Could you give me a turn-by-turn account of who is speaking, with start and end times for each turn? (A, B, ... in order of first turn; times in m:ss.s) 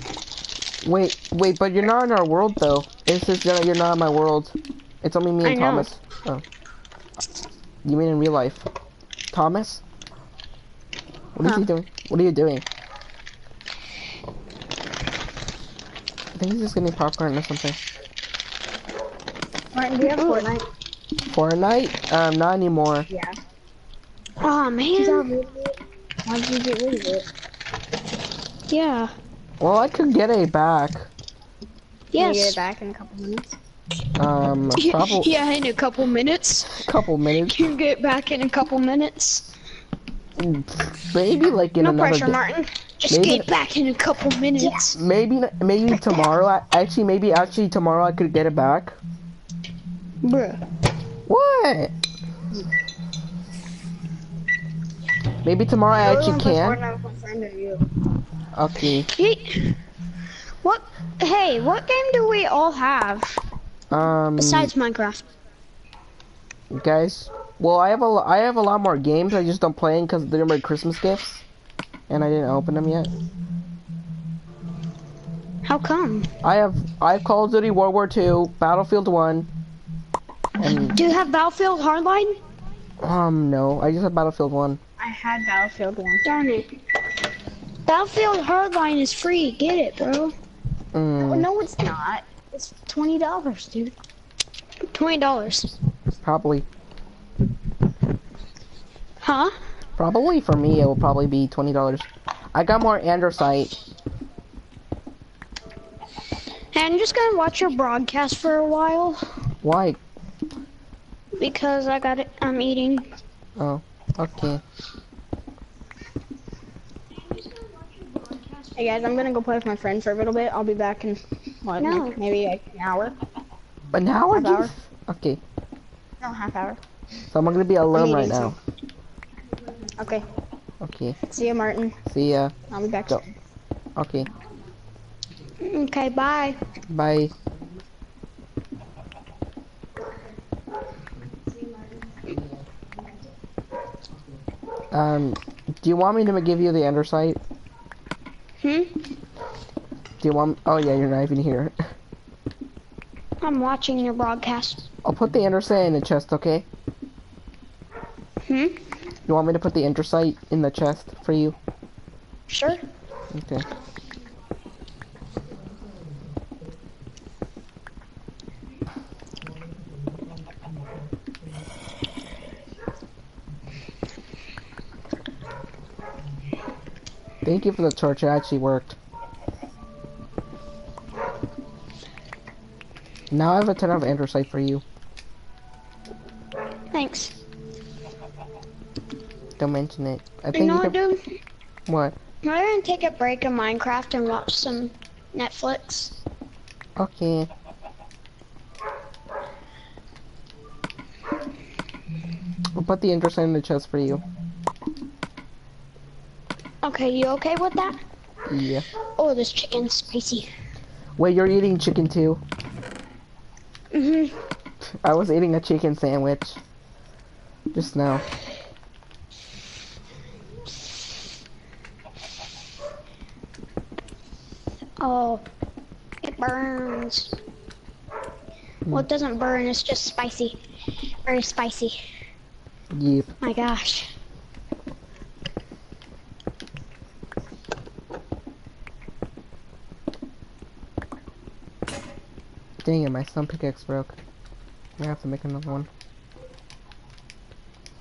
0:00.8-0:06.4 A
0:05.4-0:05.9 B
0:07.8-0:08.6 A
0:09.3-0:09.8 A
0:11.4-0:12.6 A
0:16.3-0:17.8 A
0:19.7-0:20.6 C
0:20.0-0:20.5 B
0:21.2-0:23.1 A
0:23.1-0:23.4 C
0:24.4-0:25.3 B
0:25.0-0:27.3 C
0:28.7-0:29.1 B
0:29.6-0:31.1 A
0:32.1-0:32.6 B
0:32.1-0:33.5 C
0:34.2-0:35.3 A
0:34.8-0:36.9 B
0:36.8-0:37.6 A
0:37.4-0:39.5 B
0:40.4-0:42.4 A
0:41.8-0:45.0 B
0:43.1-0:43.5 A
0:44.6-0:44.9 C
0:44.9-0:49.0 A
0:45.9-0:46.3 C
0:50.2-0:50.6 B
0:51.3-0:51.9 A
0:55.4-0:56.8 A
0:56.0-0:57.9 C
0:58.5-0:59.1 A
0:59.0-0:59.8 B
1:00.6-1:03.4 B
1:03.9-1:04.7 A
1:04.4-1:05.2 B
1:06.7-1:11.4 A
1:12.1-1:13.1 A
1:15.6-1:16.3 B
1:16.4-1:19.5 A
1:20.6-1:20.9 A
1:20.6-1:22.4 B
1:23.0-1:24.8 A
1:25.0-1:26.2 C
1:26.2-1:26.7 B
1:27.8-1:30.3 B
1:30.9-1:31.5 A
1:31.2-1:34.0 C
1:34.9-1:35.7 B
1:36.2-1:36.7 A
1:39.2-1:39.6 B
1:40.0-1:43.8 A
1:46.7-1:49.4 B
1:49.6-1:50.0 A
1:51.4-1:53.2 B
1:53.6-1:54.6 A
1:57.3-1:58.8 B
1:58.8-2:03.2 C
2:01.8-2:02.2 B
2:03.9-2:05.4 A
2:04.3-2:04.7 C
2:06.2-2:06.8 C
2:07.3-2:08.6 A
2:07.9-2:08.6 C
2:10.0-2:10.2 C
2:10.8-2:11.2 A
2:11.2-2:12.0 C
2:12.1-2:12.5 A
2:12.7-2:13.3 C
2:14.0-2:14.3 A
2:15.6-2:16.6 B
2:16.9-2:17.3 A
2:24.9-2:27.4 A
2:28.6-2:29.0 B
2:30.2-2:31.8 A
2:33.4-2:34.9 B
2:35.0-2:36.7 A
2:38.5-2:38.8 B
2:39.3-2:41.6 A
2:42.5-2:42.8 B
2:43.3-2:43.6 A
2:57.4-2:59.0 A
3:03.3-3:04.8 A
3:06.9-3:07.4 B
3:09.6-3:11.0 A
3:10.5-3:11.2 B
3:11.9-3:12.2 A
3:12.4-3:16.2 B
3:17.0-3:17.5 A
3:22.7-3:24.2 A
3:26.8-3:28.0 B
3:28.5-3:28.9 A
3:29.2-3:30.5 B
3:31.2-3:32.4 A
3:33.9-3:34.4 B
3:35.0-3:36.6 A
3:37.7-3:38.2 A
3:45.0-3:45.4 B
3:46.2-3:47.4 B
3:48.9-3:50.6 B
3:51.2-3:52.0 B
3:52.9-3:53.3 A
3:53.4-3:54.1 B
4:02.8-4:04.2 A
4:05.0-4:05.9 A